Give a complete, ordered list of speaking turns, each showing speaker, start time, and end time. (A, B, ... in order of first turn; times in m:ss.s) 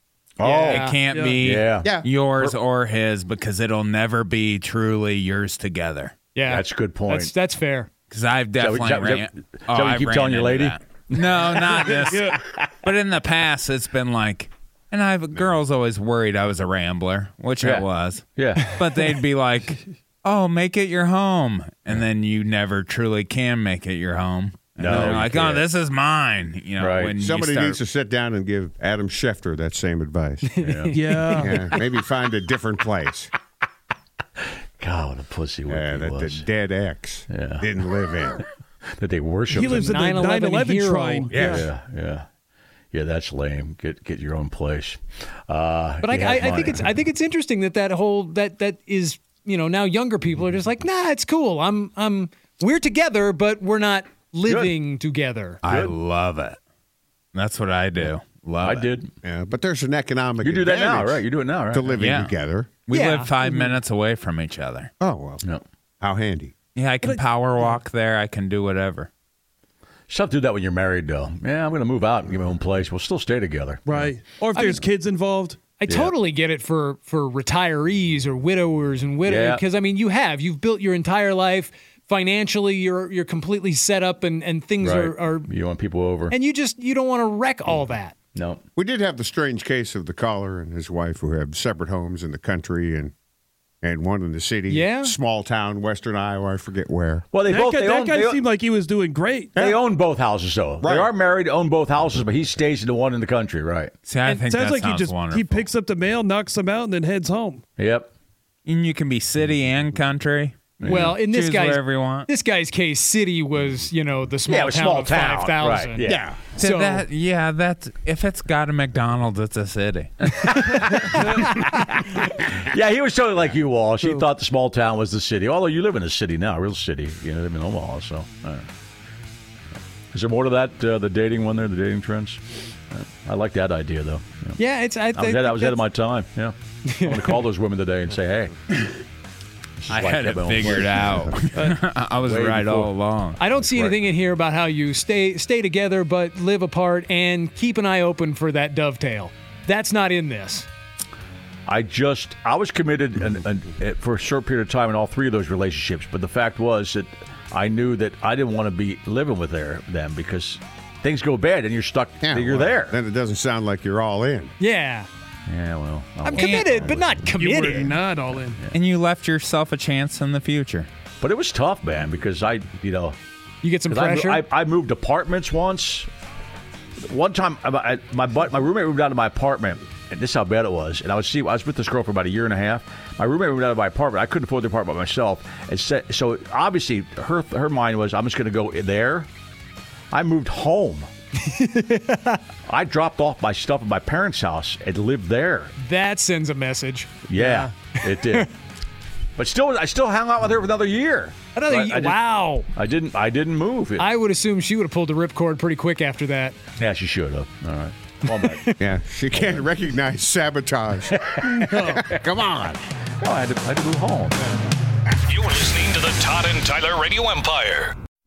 0:00.4-0:00.9 A
0:00.4-0:01.0 B
0:00.6-0:06.1 C
0:01.1-0:01.4 D
0:01.4-0:02.5 A
0:01.8-0:02.1 E
0:06.4-0:07.9 B
0:06.5-0:07.3 A
0:08.1-0:27.8 C
0:08.6-0:11.6 A
0:11.8-0:12.4 D
0:17.6-0:18.7 A
0:24.8-0:25.7 A
0:26.8-0:27.1 A
0:27.2-0:30.5 E
0:30.6-0:31.5 B
0:30.6-0:31.0 A
0:30.9-0:31.7 D
0:31.4-0:33.3 E
0:34.8-0:36.5 A
0:35.7-0:38.5 E
0:37.3-0:37.8 A
0:39.0-0:40.1 A
0:39.5-0:41.7 D
0:39.7-0:41.3 B
0:41.3-0:41.7 E
0:41.4-0:42.3 A
0:42.9-0:46.9 A
0:46.0-0:55.6 B
0:54.5-0:54.7 A
0:55.6-0:55.9 A
0:55.6-0:56.6 C
0:57.3-0:58.9 C
0:58.6-0:59.1 A
0:59.2-1:02.7 E
1:00.4-1:02.0 A
1:02.0-1:02.3 C
1:02.9-1:04.9 C
1:02.9-1:03.3 B
1:05.0-1:05.4 E
1:06.0-1:06.5 E
1:06.8-1:09.1 C
1:07.0-1:07.8 D
1:10.1-1:14.1 A
1:13.9-1:15.6 D
1:14.5-1:14.8 B
1:15.8-1:25.5 B
1:15.9-1:16.1 A
1:19.2-1:19.6 A
1:24.8-1:26.4 A
1:26.3-1:28.2 B
1:28.4-1:28.6 A
1:28.8-1:33.1 E
1:33.8-1:37.3 E
1:34.7-1:35.2 B
1:37.3-1:38.4 A
1:37.4-1:39.6 D
1:39.6-1:39.8 E
1:39.6-1:43.9 A
1:40.8-1:41.1 E
1:44.1-1:45.7 C
1:44.3-1:47.6 D
1:47.8-1:48.1 A
1:48.7-1:52.3 C
1:50.8-1:51.2 A
1:50.9-1:56.0 B
1:54.5-1:56.3 A
1:56.0-1:56.4 E
1:56.6-1:57.0 B
1:56.6-2:00.8 C
2:00.4-2:08.7 A
2:10.1-2:14.6 A
2:14.6-2:15.8 B
2:15.1-2:18.6 A
2:16.9-2:17.3 B
2:19.8-2:22.9 A
2:19.9-2:23.4 C
2:23.4-2:30.7 B
2:23.6-2:24.0 A
2:31.7-2:43.0 A
2:42.2-2:44.5 E
2:44.6-2:45.1 B
2:45.5-2:47.3 A
2:46.2-2:48.0 B
2:46.4-2:46.8 C
2:47.4-2:48.6 D
2:48.7-2:50.9 C
2:51.2-2:53.2 A
2:53.6-2:54.5 B
2:53.9-2:56.1 A
2:57.0-3:09.3 A
3:10.1-3:11.1 A
3:11.4-3:12.4 B
3:12.7-3:15.7 A
3:15.8-3:17.1 B
3:17.3-3:18.5 A
3:17.4-3:17.7 D
3:18.0-3:18.5 B
3:19.4-3:22.2 A
3:21.6-3:22.7 B
3:22.7-3:24.1 A
3:24.0-3:26.6 B
3:26.8-3:28.7 A
3:28.3-3:28.8 B
3:28.8-3:32.8 E
3:31.3-3:31.6 A
3:31.6-3:32.0 D
3:33.2-3:34.5 A
3:35.3-3:37.9 F